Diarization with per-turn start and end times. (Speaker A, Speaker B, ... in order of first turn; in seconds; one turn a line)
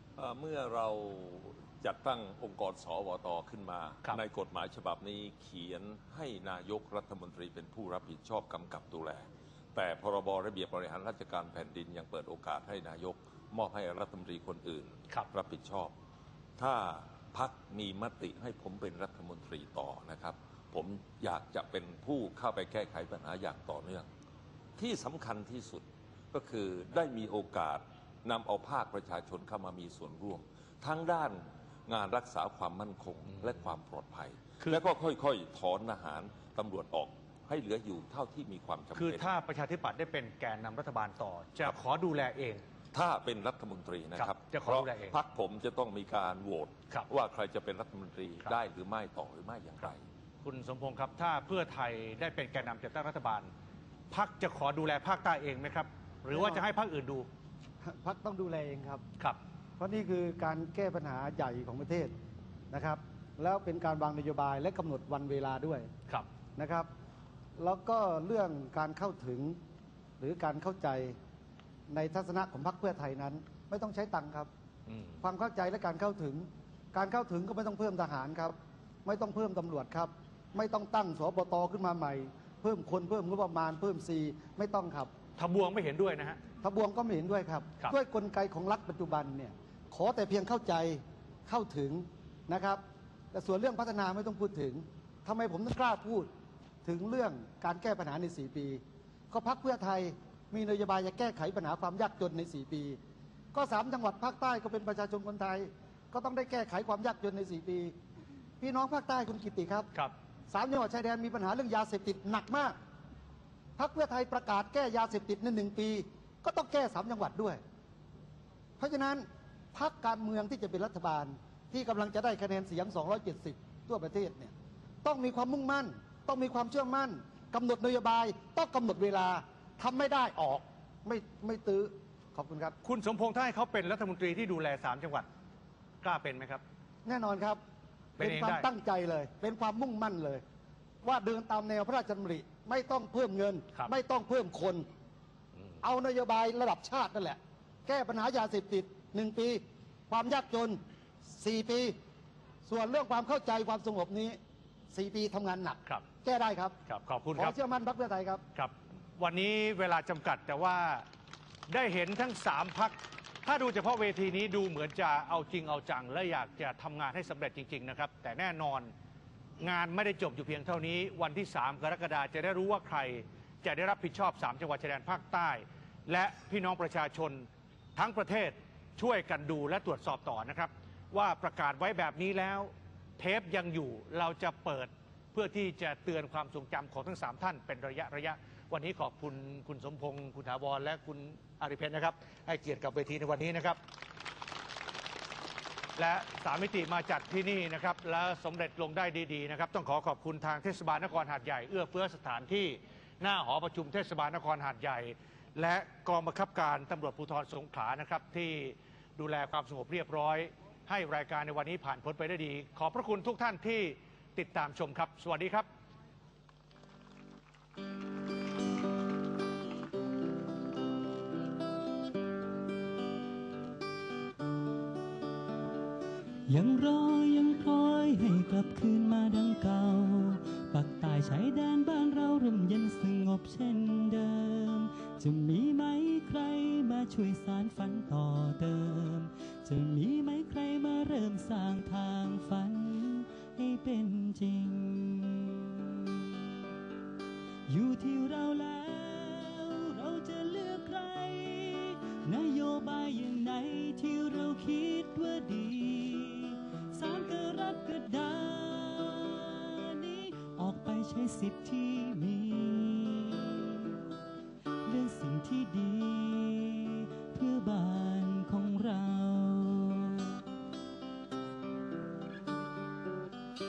Speaker A: 0.2-15.9
Speaker A: 16.6-24.1
Speaker A: 24.8-39.4
Speaker B: 38.9-42.6
Speaker A: 42.9-50.0
Speaker B: 44.1-45.1
Speaker B: 50.4-53.5
Speaker B: 54.1-57.3
Speaker C: 56.3-56.6
Speaker C: 57.8-59.0
Speaker C: 59.8-62.1
Speaker C: 62.7-65.9
Speaker C: 66.5-66.9
Speaker C: 67.6-69.6
Speaker C: 70.2-71.2
Speaker C: 71.9-74.5
Speaker B: 74.9-75.2
Speaker C: 75.2-78.5
Speaker C: 79.0-85.1
Speaker B: 85.3-86.4
Speaker C: 86.6-92.8
Speaker C: 93.3-96.3
Speaker C: 96.8-103.0
Speaker C: 103.5-107.9
Speaker C: 108.6-109.9
Speaker C: 110.5-112.7
Speaker C: 113.8-117.6
Speaker C: 118.8-124.5
Speaker C: 125.0-132.8
Speaker B: 132.8-135.3
Speaker B: 136.0-136.6
Speaker C: 137.0-137.6
Speaker B: 138.2-138.6
Speaker C: 138.2-140.4
Speaker C: 141.0-144.8
Speaker C: 145.8-150.8
Speaker C: 151.4-151.9
Speaker C: 152.7-154.4
Speaker C: 154.9-156.8
Speaker B: 156.8-157.5
Speaker C: 157.3-158.4
Speaker B: 158.5-161.1
Speaker B: 161.7-168.9
Speaker B: 169.6-193.8
Speaker B: 195.9-215.7
Speaker D: 226.5-246.4
Speaker D: 247.7-263.9
Speaker D: 264.9-270.4